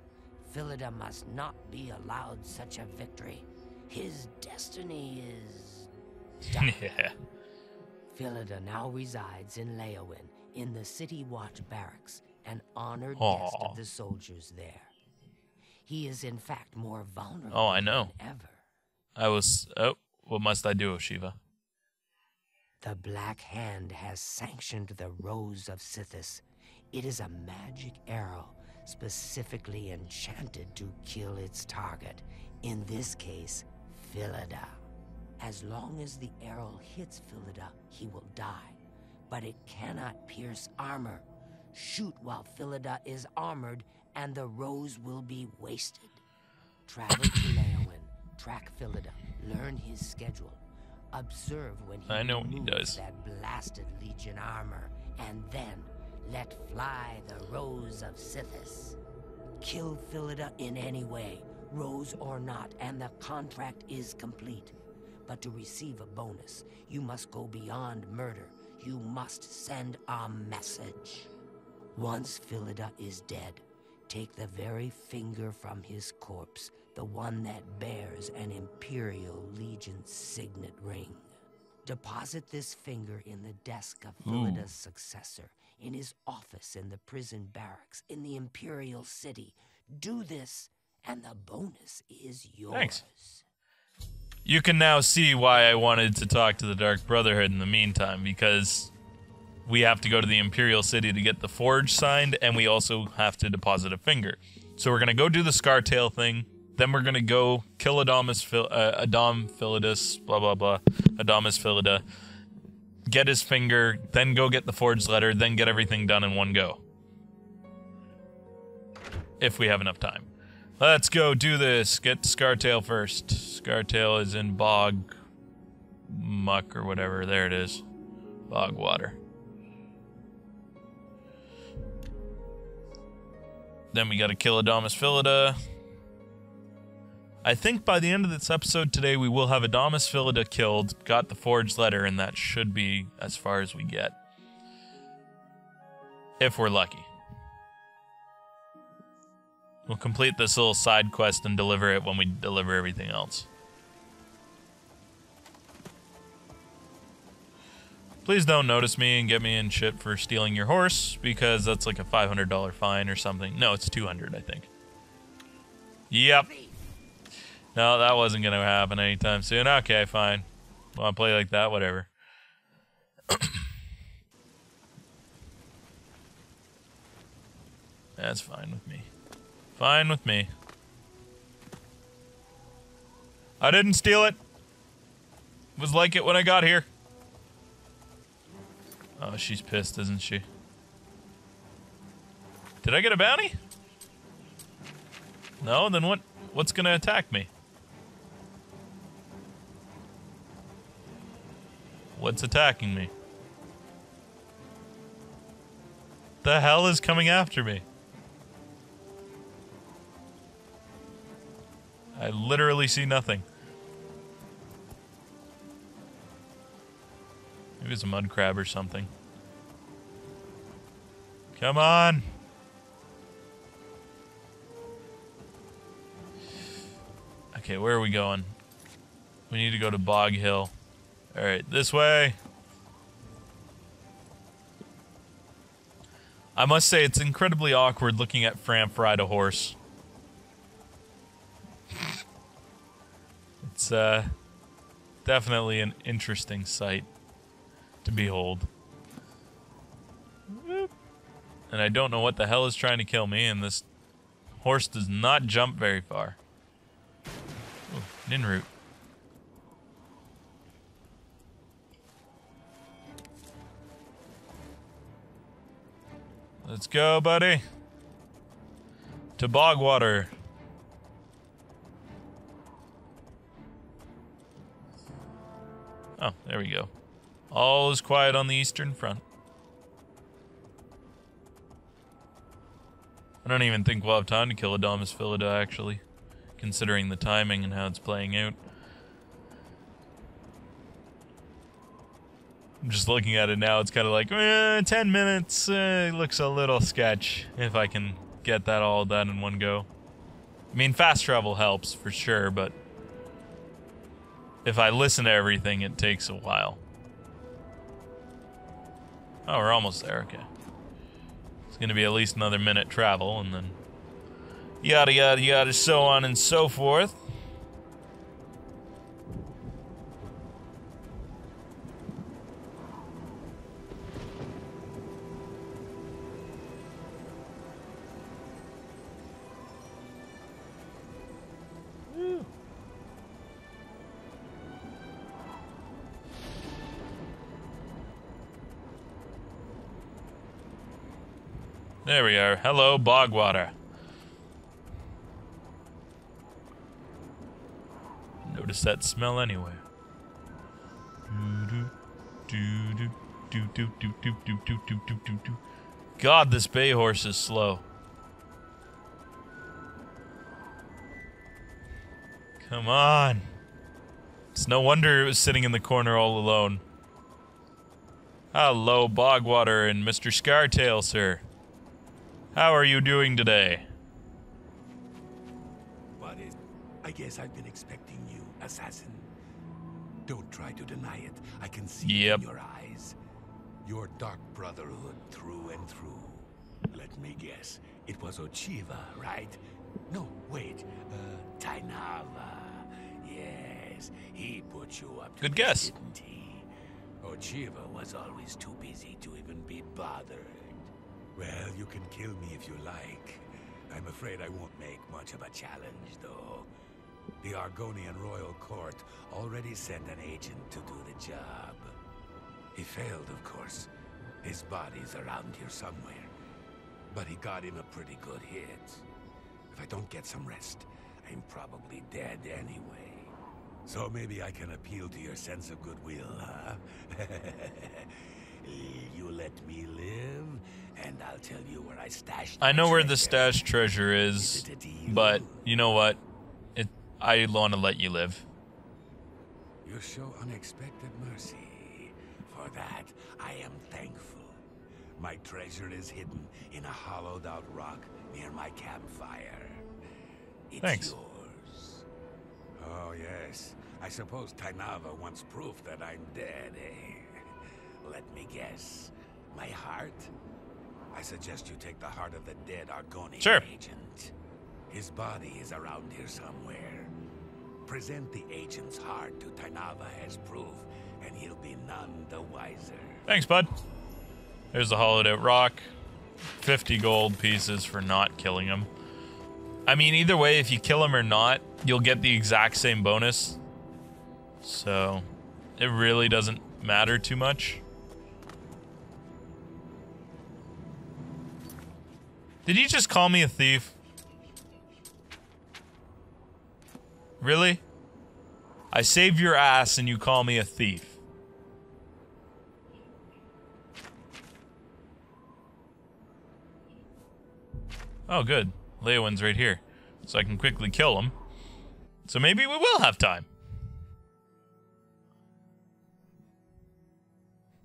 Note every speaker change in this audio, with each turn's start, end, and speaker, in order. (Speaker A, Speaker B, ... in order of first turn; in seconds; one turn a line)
Speaker A: 0.4-5.9
Speaker A: 6.5-6.8
Speaker B: 6.5-7.2
Speaker A: 8.1-14.9
Speaker B: 13.2-13.8
Speaker A: 15.8-18.6
Speaker B: 17.5-18.1
Speaker B: 19.2-21.4
Speaker A: 22.8-34.8
Speaker A: 35.4-38.8
Speaker A: 39.3-46.2
Speaker A: 46.9-59.0
Speaker B: 52.1-53.0
Speaker A: 59.6-64.8
Speaker A: 65.3-71.3
Speaker A: 72.0-81.3
Speaker A: 81.8-93.4
Speaker B: 84.2-84.7
Speaker B: 92.7-93.0
Speaker B: 94.5-98.9
Speaker B: 99.7-112.0
Speaker B: 113.1-116.8
Speaker B: 119.4-120.3
Speaker B: 120.8-125.1
Speaker B: 126.1-127.8
Speaker B: 128.5-129.2
Speaker B: 133.9-135.6
Speaker B: 137.4-144.2
Speaker B: 146.4-147.1
Speaker B: 149.9-153.5
Speaker B: 158.2-164.7
Speaker B: 166.1-166.5
Speaker B: 167.8-172.1
Speaker B: 173.3-173.7
Speaker B: 178.2-179.1
Speaker B: 179.8-180.5
Speaker B: 183.6-184.4
Speaker B: 185.8-186.9
Speaker B: 189.2-190.4
Speaker B: 192.8-193.6
Speaker B: 195.6-197.5
Speaker B: 202.2-203.1
Speaker B: 206.4-207.8
Speaker B: 212.2-213.4
Speaker B: 217.8-219.1
Speaker B: 221.6-222.2
Speaker B: 227.5-228.6
Speaker B: 229.5-230.7
Speaker B: 231.3-232.4
Speaker B: 236.6-239.8
Speaker B: 243.6-244.3
Speaker B: 245.2-247.1
Speaker B: 248.0-248.7
Speaker B: 250.5-250.9
Speaker B: 251.7-253.8
Speaker B: 254.6-256.4
Speaker B: 257.9-258.7
Speaker B: 266.6-267.6
Speaker B: 269.4-270.3
Speaker B: 276.2-276.9
Speaker B: 277.5-279.2
Speaker B: 283.4-286.0
Speaker B: 286.6-288.6
Speaker B: 292.8-299.9
Speaker B: 300.7-302.7
Speaker B: 304.6-306.8
Speaker B: 309.5-310.5
Speaker B: 311.7-313.8
Speaker B: 314.8-317.2
Speaker B: 332.1-332.5
Speaker B: 342.1-343.7
Speaker B: 348.4-349.8
Speaker B: 351.3-351.9
Speaker B: 352.5-355.6
Speaker B: 356.2-357.8
Speaker B: 362.6-363.5
Speaker B: 364.6-366.8
Speaker B: 368.5-371.4
Speaker B: 372.5-373.9
Speaker C: 376.2-379.3
Speaker C: 380.3-383.2
Speaker B: 382.0-382.4
Speaker C: 383.8-396.7
Speaker B: 395.4-395.9
Speaker C: 397.2-406.7
Speaker C: 407.4-412.0
Speaker C: 412.7-413.9
Speaker C: 414.4-416.3
Speaker C: 417.1-419.1
Speaker C: 419.7-423.3
Speaker C: 423.9-433.7
Speaker B: 432.6-436.2
Speaker C: 434.4-435.7
Speaker B: 436.8-438.5
Speaker C: 439.8-444.6
Speaker C: 445.2-449.9
Speaker C: 450.7-452.1
Speaker B: 450.8-451.1
Speaker C: 452.8-460.3
Speaker C: 461.1-464.3
Speaker B: 463.4-463.6
Speaker C: 464.9-467.1
Speaker C: 467.9-473.3
Speaker B: 473.3-473.7
Speaker B: 474.7-475.9
Speaker B: 476.6-478.9
Speaker B: 479.9-483.6
Speaker B: 484.6-485.2
Speaker B: 485.8-487.8
Speaker B: 492.7-494.0
Speaker B: 497.4-497.8
Speaker B: 498.9-501.2
Speaker B: 508.3-511.4
Speaker B: 512.2-513.5